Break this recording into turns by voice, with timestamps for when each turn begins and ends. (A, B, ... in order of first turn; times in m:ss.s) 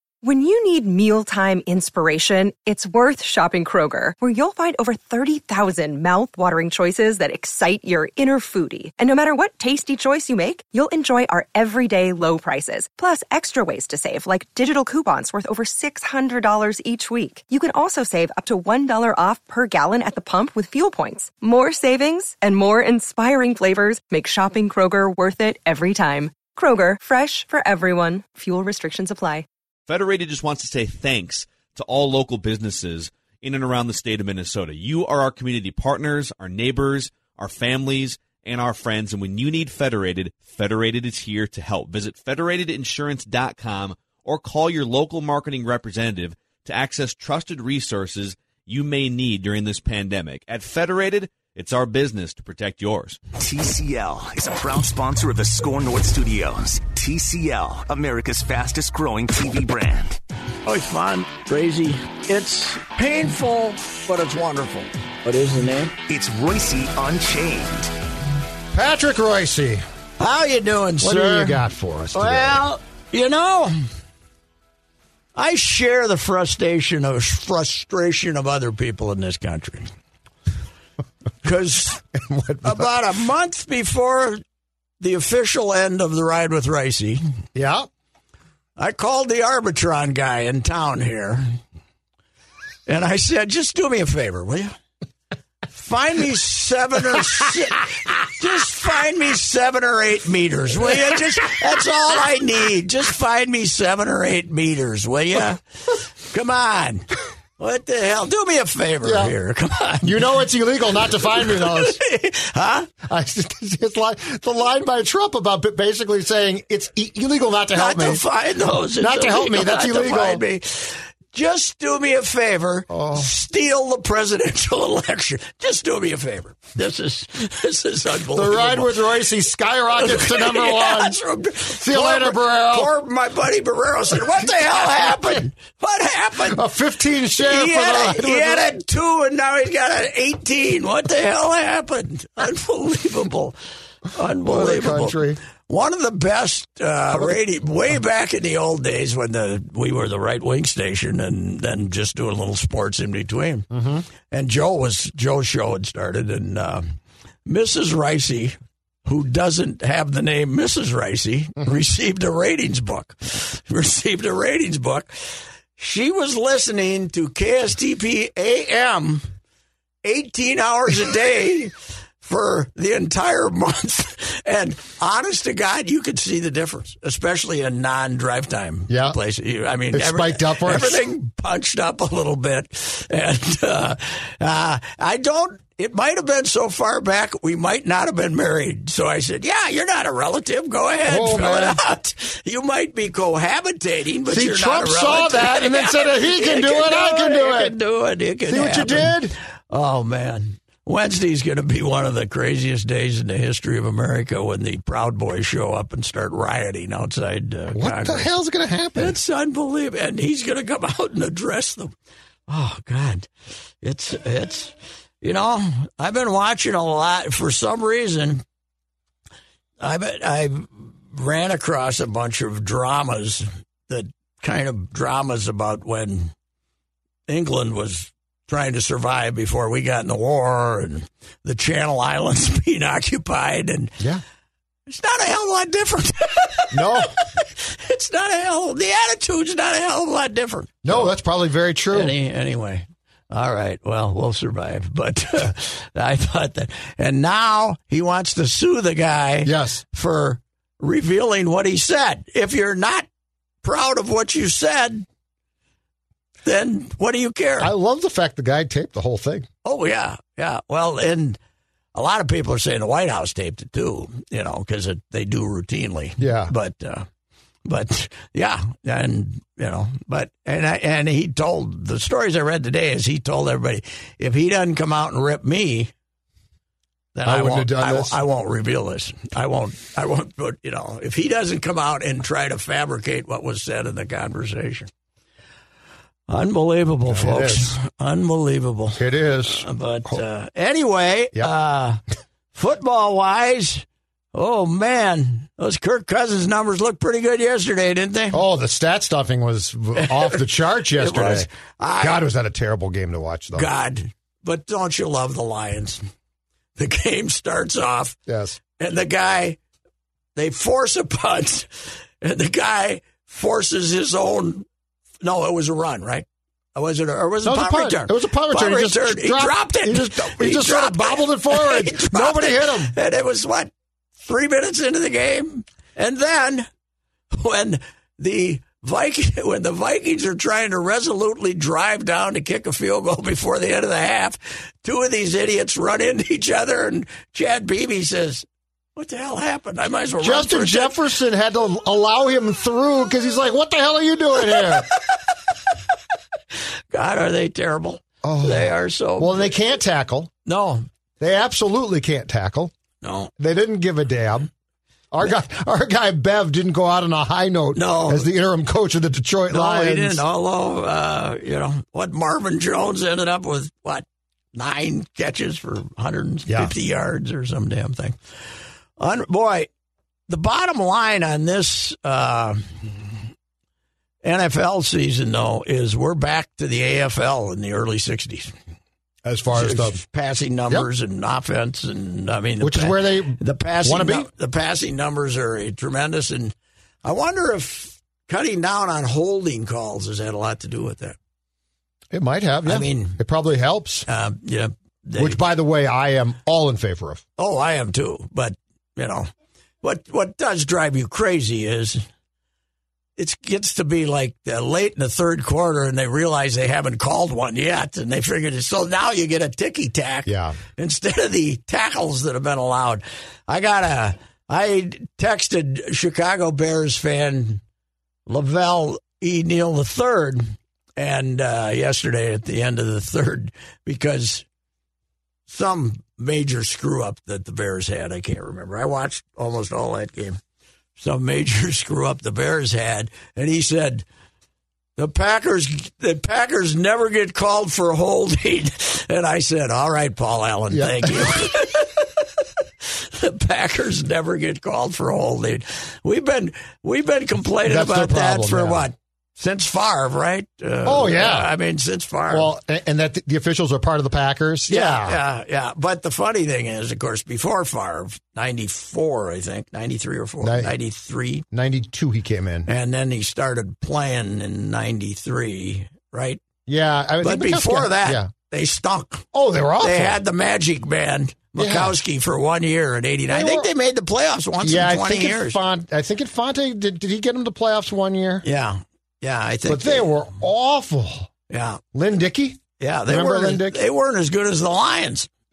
0:00.2-0:29.5 A
0:29.9-0:53.2 B
0:53.4-1:00.2 C
1:00.7-1:06.0 D
1:06.1-1:07.9 C
1:08.7-1:09.8 E
1:10.2-1:11.6 D
1:11.0-1:12.6 E
1:12.1-1:13.8 D
1:15.4-1:19.9 D
1:21.4-1:22.0 D
1:22.1-1:22.9 E
1:22.6-1:24.4 D
1:25.0-1:27.2 D
1:27.6-1:27.9 E
1:28.8-1:31.6 D
1:32.9-1:34.7 D
1:35.7-1:47.0 D
1:47.6-1:50.3 D
1:49.0-1:49.3 E
1:50.0-1:52.0 E
1:51.3-1:52.9 D
1:53.0-1:58.2 E
1:57.7-2:09.1 D
1:59.0-2:00.4 E
2:02.9-2:03.3 E
2:08.3-2:11.2 E
2:10.0-2:16.6 D
2:11.7-2:12.9 E
2:16.4-2:18.7 E
2:17.4-2:23.6 D
2:24.1-2:33.7 D
2:24.4-2:25.4 E
2:27.1-2:27.4 E
2:33.7-2:34.0 E
2:34.3-2:36.8 D
2:37.5-2:49.2 D
2:50.0-3:28.3 D
2:58.9-2:59.2 E
2:59.9-3:01.1 E
3:11.1-3:11.8 E
3:14.3-3:17.8 E
3:18.5-3:19.4 E
3:27.7-3:29.2 E
3:29.0-3:31.9 D
3:32.5-3:33.3 D
3:33.8-3:38.4 D
3:39.8-3:46.3 D
3:47.3-3:54.0 D
3:54.9-4:01.1 D
3:56.7-3:57.1 E
4:00.8-4:02.2 E
4:01.9-4:13.1 D
4:09.4-4:09.8 E
4:13.6-4:15.0 D
4:16.4-4:17.7 D
4:17.6-4:19.5 E
4:19.6-4:21.4 D
4:21.9-4:27.1 D
4:26.2-4:26.5 E
4:27.7-4:35.9 D
4:37.2-4:44.9 D
4:37.2-4:38.2 E
4:46.3-4:52.0 D
4:47.1-4:47.7 E
4:49.0-4:50.2 E
4:52.5-4:58.4 D
4:58.3-5:03.7 E
5:00.0-5:02.2 D
5:03.5-5:06.0 D
5:06.8-5:08.2 D
5:08.3-5:08.6 E
5:08.8-5:09.6 D
5:10.4-5:14.7 D
5:15.2-5:26.7 D
5:17.4-5:22.9 E
5:27.3-5:41.0 D
5:40.2-5:45.0 E
5:44.6-5:45.2 D
5:46.9-5:49.6 D
5:48.2-5:50.3 E
5:50.5-5:50.9 D
5:51.2-5:52.7 E
5:53.0-5:53.3 D
5:53.4-5:54.5 E
5:55.1-6:00.2 E
5:57.8-5:58.3 D
5:59.5-6:08.2 D
6:06.5-6:06.7 E
6:09.0-6:09.7 D
6:10.3-6:12.9 D
6:14.2-6:18.5 D
6:19.2-6:20.0 E
6:19.5-6:31.2 D
6:22.6-6:24.3 E
6:32.1-6:34.1 E
6:32.7-6:33.2 D
6:34.1-6:35.4 D
6:35.2-6:37.2 E
6:37.4-6:39.3 D
6:39.8-6:42.0 D
6:43.2-6:57.6 D
6:50.3-6:50.6 E
6:58.3-7:04.4 D
7:05.5-7:10.4 D
7:11.0-7:14.0 D
7:15.0-7:22.3 D
7:20.7-7:21.5 E
7:22.8-7:32.5 D
7:27.6-7:28.9 E
7:30.8-7:31.5 E
7:32.3-7:35.2 E
7:34.7-7:41.4 D
7:40.4-7:40.8 E
7:41.5-7:42.7 E
7:42.7-7:46.4 D
7:46.7-7:48.3 E
7:47.2-7:49.3 D
7:49.3-7:50.2 E
7:49.8-7:55.6 D
7:51.6-7:52.0 E
7:53.3-7:53.7 E
7:54.6-7:58.4 E
7:58.4-8:00.1 D
7:59.7-8:01.3 E
8:01.5-8:01.8 D
8:01.9-8:03.8 E
8:02.8-8:05.3 D